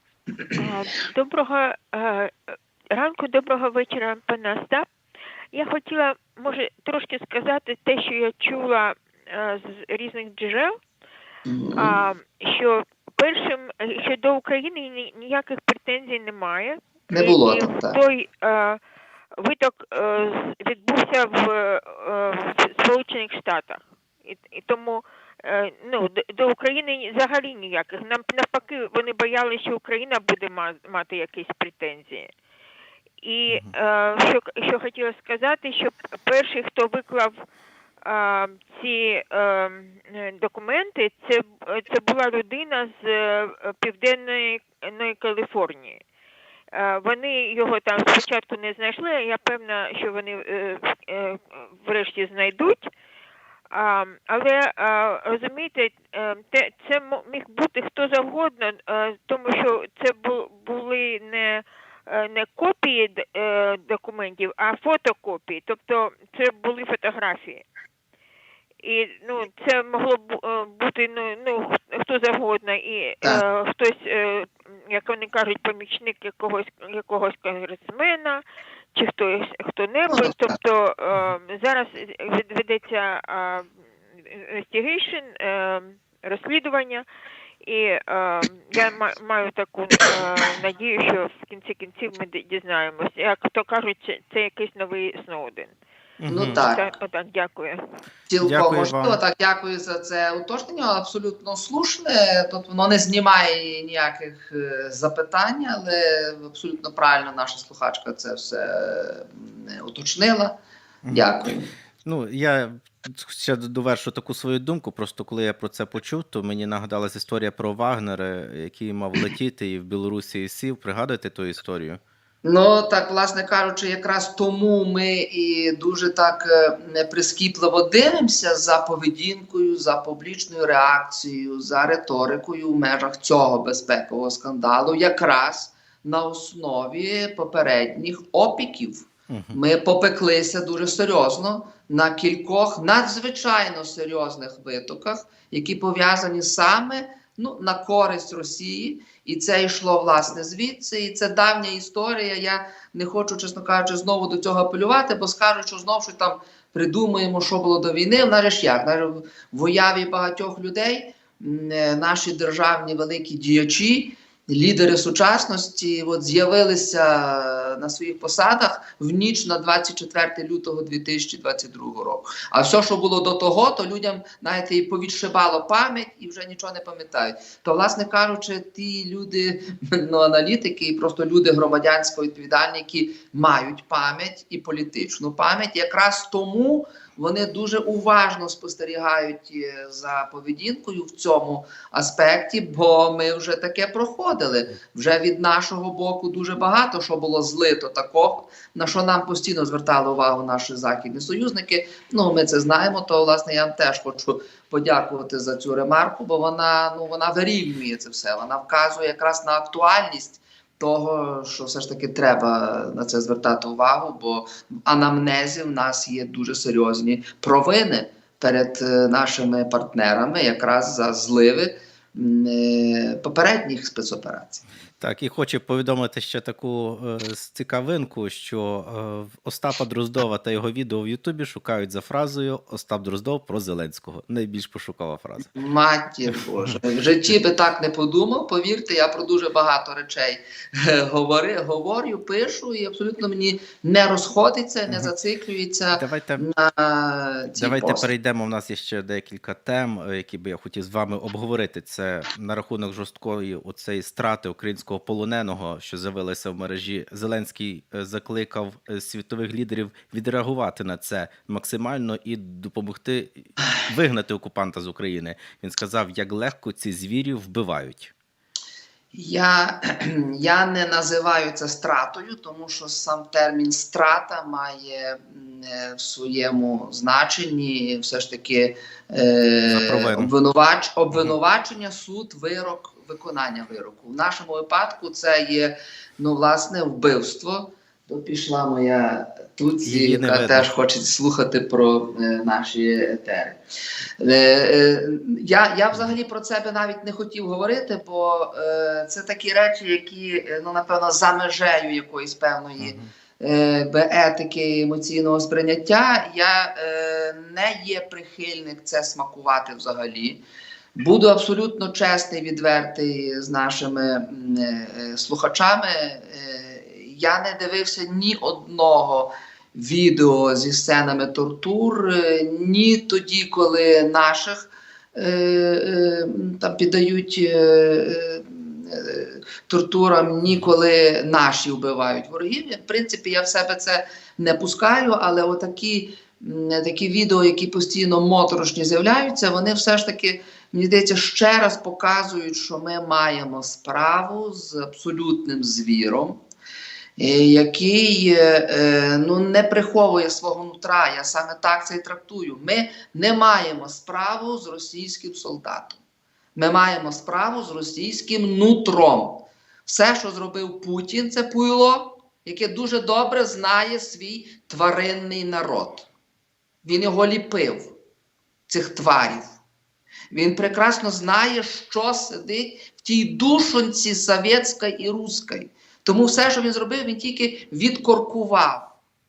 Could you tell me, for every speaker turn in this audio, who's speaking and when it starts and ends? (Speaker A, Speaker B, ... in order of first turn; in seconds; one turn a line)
Speaker A: 0.5-4.9
Speaker A: 5.5-10.8
Speaker B: 11.4-11.9
Speaker A: 11.8-18.8
Speaker B: 17.1-18.0
Speaker A: 19.4-32.3
Speaker A: 33.2-37.4
Speaker A: 38.0-46.0
Speaker A: 46.7-52.9
Speaker A: 53.7-67.6
Speaker A: 68.8-78.4
Speaker A: 78.9-87.0
Speaker B: 80.1-80.5
Speaker A: 87.6-95.7
Speaker C: 96.2-96.6
Speaker B: 96.3-96.9
Speaker A: 96.4-97.8
Speaker B: 98.3-110.5
Speaker C: 98.4-99.2
Speaker C: 111.0-111.3
Speaker B: 111.1-111.7
Speaker C: 112.0-122.0
Speaker B: 122.4-224.6
Speaker C: 139.3-139.6
Speaker C: 225.0-235.5
Speaker B: 235.5-248.1
Speaker C: 245.9-246.4
Speaker C: 247.6-268.1
Speaker B: 269.1-293.6
Speaker C: 279.6-280.3
Speaker C: 289.8-290.7
Speaker B: 294.2-310.4
Speaker C: 302.8-303.1
Speaker B: 310.9-346.4
Speaker B: 347.2-356.0
Speaker B: 356.6-366.1
Speaker B: 366.8-367.9
Speaker B: 368.7-369.5
Speaker B: 370.3-378.9